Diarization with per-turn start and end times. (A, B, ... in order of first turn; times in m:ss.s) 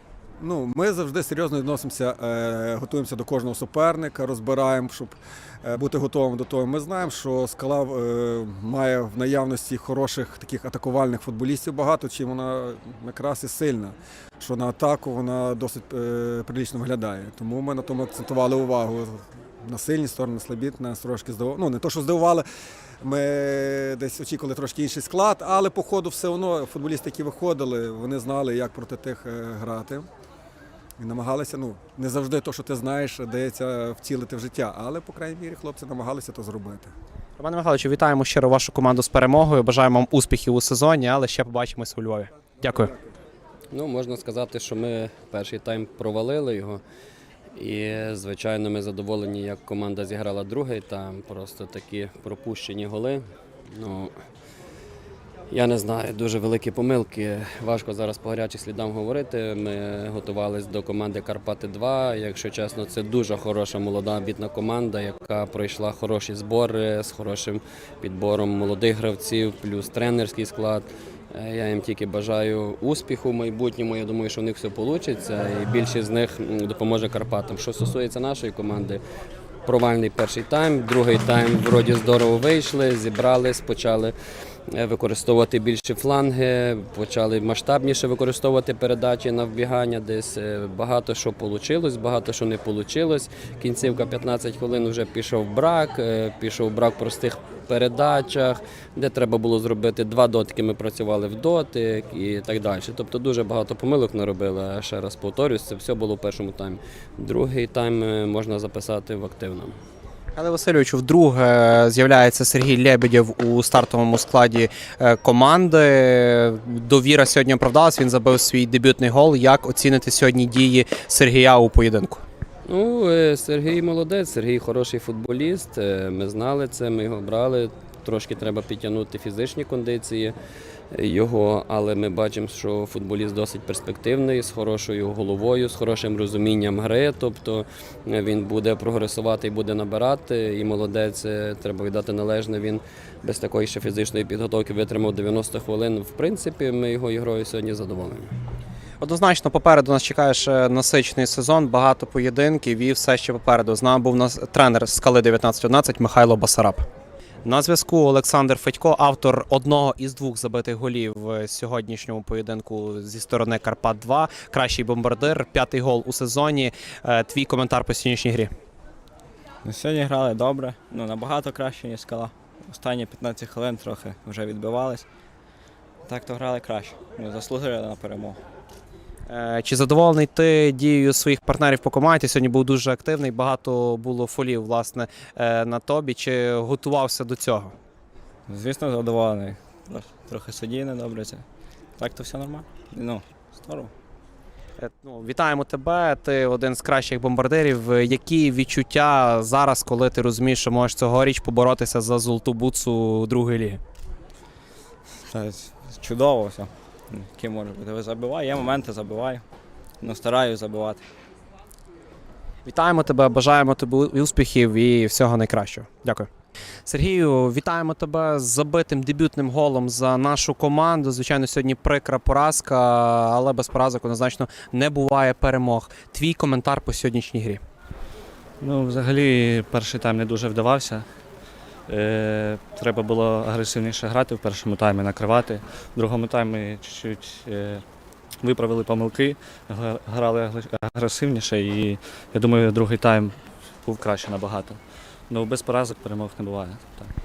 0:00.4-0:22.4 A
0:23.0-0:30.0 A
0:31.0-0:36.9 A
0:37.4-0:42.9 B
0:43.7-0:46.8 C
0:47.5-0:54.1 C
0:55.5-1:19.0 C
1:19.6-1:24.1 C
1:24.7-1:49.7 C
1:50.4-2:02.2 B
2:02.7-2:10.3 C
2:10.9-2:28.3 C
2:29.0-2:36.8 B
2:37.4-2:48.5 B
2:49.6-2:55.0 D
2:56.0-2:58.4 D
2:59.3-3:07.7 B
3:08.5-3:13.9 D
3:14.8-3:23.8 B
3:25.2-3:29.4 D
3:30.0-3:31.0 D
3:32.6-3:36.3 B
3:36.8-3:47.6 B
3:48.6-3:51.0 E
3:51.9-3:57.8 E
3:58.4-4:07.1 E